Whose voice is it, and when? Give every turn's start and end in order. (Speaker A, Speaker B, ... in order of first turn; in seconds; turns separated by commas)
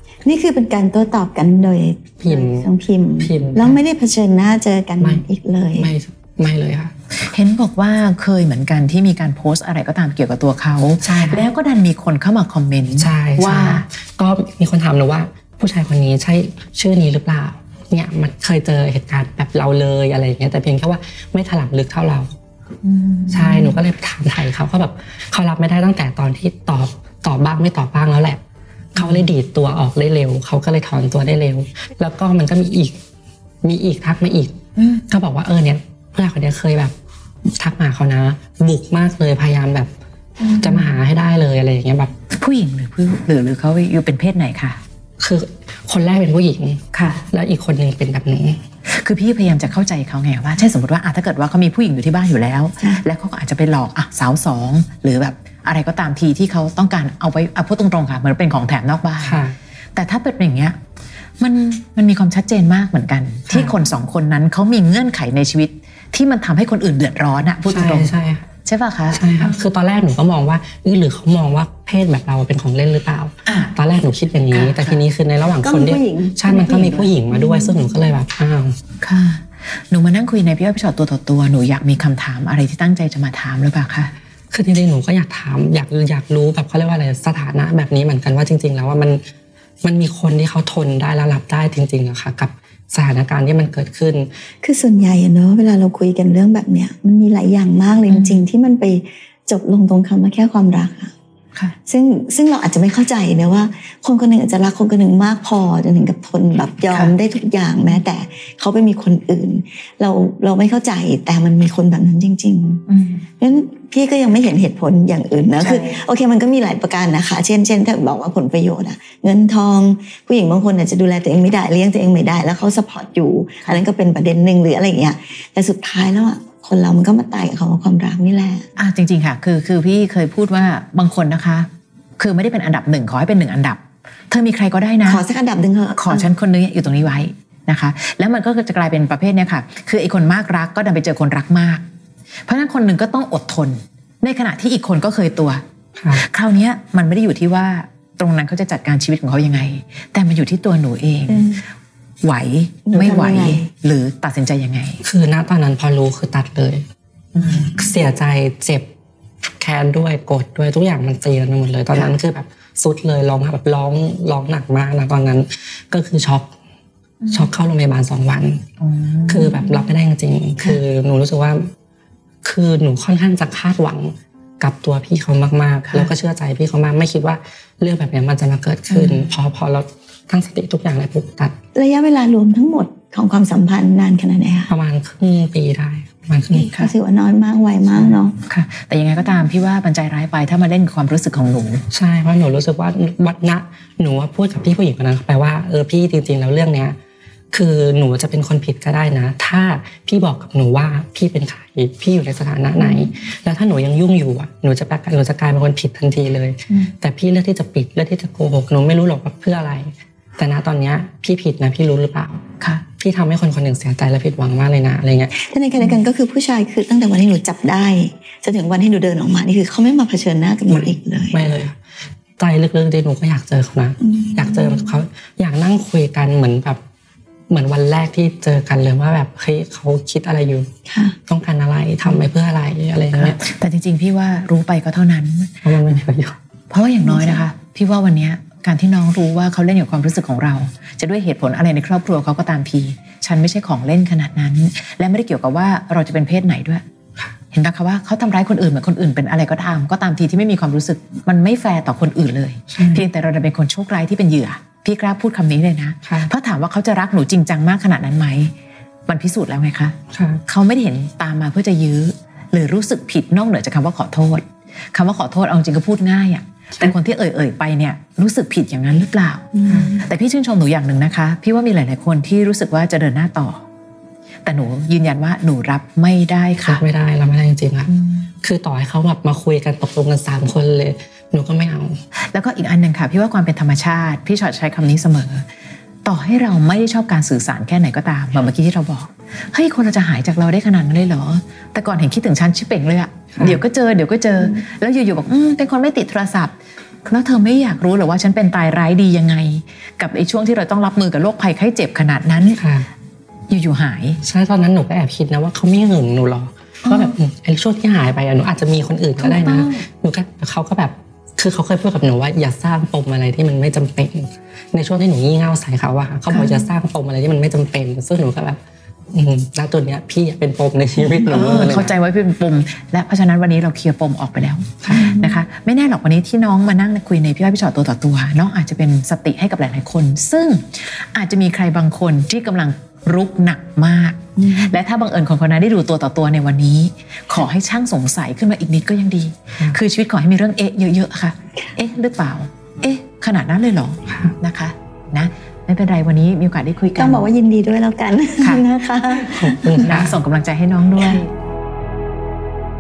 Speaker A: 0.2-5.9, Speaker B: 2.2-3.8, Speaker B: 5.0-5.2, Speaker B: 5.8-6.9, Speaker C: 7.2-13.9, Speaker B: 11.0-11.5, Speaker B: 13.0-22.3, Speaker C: 22.8-23.8, Speaker B: 23.3-28.4, Speaker B: 28.9-33.0, Speaker C: 28.9-29.3, Speaker B: 33.6-34.6, Speaker C: 34.8-35.0, Speaker B: 35.1-36.9, Speaker B: 37.5-39.9, Speaker C: 40.4-41.0, Speaker B: 40.6-42.1, Speaker C: 42.4-44.8, Speaker B: 45.2-46.8, Speaker C: 46.9-47.2, Speaker B: 47.3-48.6, Speaker C: 48.9-60.8, Speaker B: 59.2-59.6, Speaker C: 61.4-68.1, Speaker B: 63.5-63.8, Speaker B: 67.7-68.5, Speaker C: 68.7-69.4, Speaker B: 69.1-78.8, Speaker C: 73.5-73.7, Speaker C: 74.5-75.0, Speaker A: 75.6-77.1, Speaker C: 79.0-84.1, Speaker B: 84.5-89.2, Speaker B: 89.8-94.3, Speaker A: 94.6-101.1, Speaker C: 98.1-98.5, Speaker A: 101.9-112.8, Speaker C: 112.9-113.2, Speaker A: 113.4-128.7, Speaker C: 115.6-116.0, Speaker C: 128.8-135.3, Speaker A: 135.0-136.3, Speaker C: 136.0-141.8, Speaker C: 142.5-151.5, Speaker B: 146.0-146.2, Speaker A: 151.3-151.6, Speaker C: 152.2-155.0, Speaker A: 152.9-153.7, Speaker B: 155.0-156.8, Speaker C: 157.3-157.8, Speaker B: 157.6-158.9, Speaker B: 159.6-166.5, Speaker C: 161.9-162.2, Speaker C: 167.2-167.5, Speaker B: 167.3-168.6, Speaker C: 168.8-169.8, Speaker B: 169.3-171.7, Speaker B: 172.4-181.6, Speaker C: 178.9-179.3, Speaker A: 181.8-184.7, Speaker B: 184.7-186.8, Speaker A: 186.5-188.4, Speaker C: 187.9-191.8, Speaker B: 191.9-197.0, Speaker B: 197.5-212.4, Speaker C: 202.8-203.1, Speaker B: 212.9-215.3, Speaker A: 215.3-221.5, Speaker B: 220.7-221.8, Speaker B: 222.4-226.8, Speaker A: 224.0-225.0, Speaker B: 227.5-230.7, Speaker A: 230.9-231.2, Speaker B: 231.3-233.4, Speaker C: 232.0-232.3, Speaker C: 233.1-235.6, Speaker B: 235.6-236.4, Speaker C: 236.7-246.8, Speaker A: 237.0-237.4, Speaker C: 247.5-258.5, Speaker B: 252.7-253.0, Speaker B: 256.1-256.3, Speaker C: 259.1-260.0, Speaker B: 260.1-260.4, Speaker C: 260.5-273.6, Speaker A: 269.6-270.0, Speaker C: 274.5-276.9, Speaker B: 276.6-277.9, Speaker C: 277.9-278.3, Speaker B: 278.4-282.0, Speaker C: 282.3-285.4, Speaker C: 286.1-302.6, Speaker B: 293.3-293.6, Speaker B: 302.5-302.9, Speaker C: 303.5-304.2, Speaker B: 304.2-318.6, Speaker C: 306.9-307.2, Speaker C: 309.2-309.8, Speaker C: 316.3-316.7, Speaker B: 319.1-321.9, Speaker C: 321.2-347.3, Speaker B: 324.8-325.1, Speaker A: 324.9-325.4, Speaker A: 334.4-334.8, Speaker B: 344.1-344.4, Speaker A: 347.0-349.9, Speaker C: 348.4-348.7, Speaker B: 349.3-350.2, Speaker C: 349.8-351.3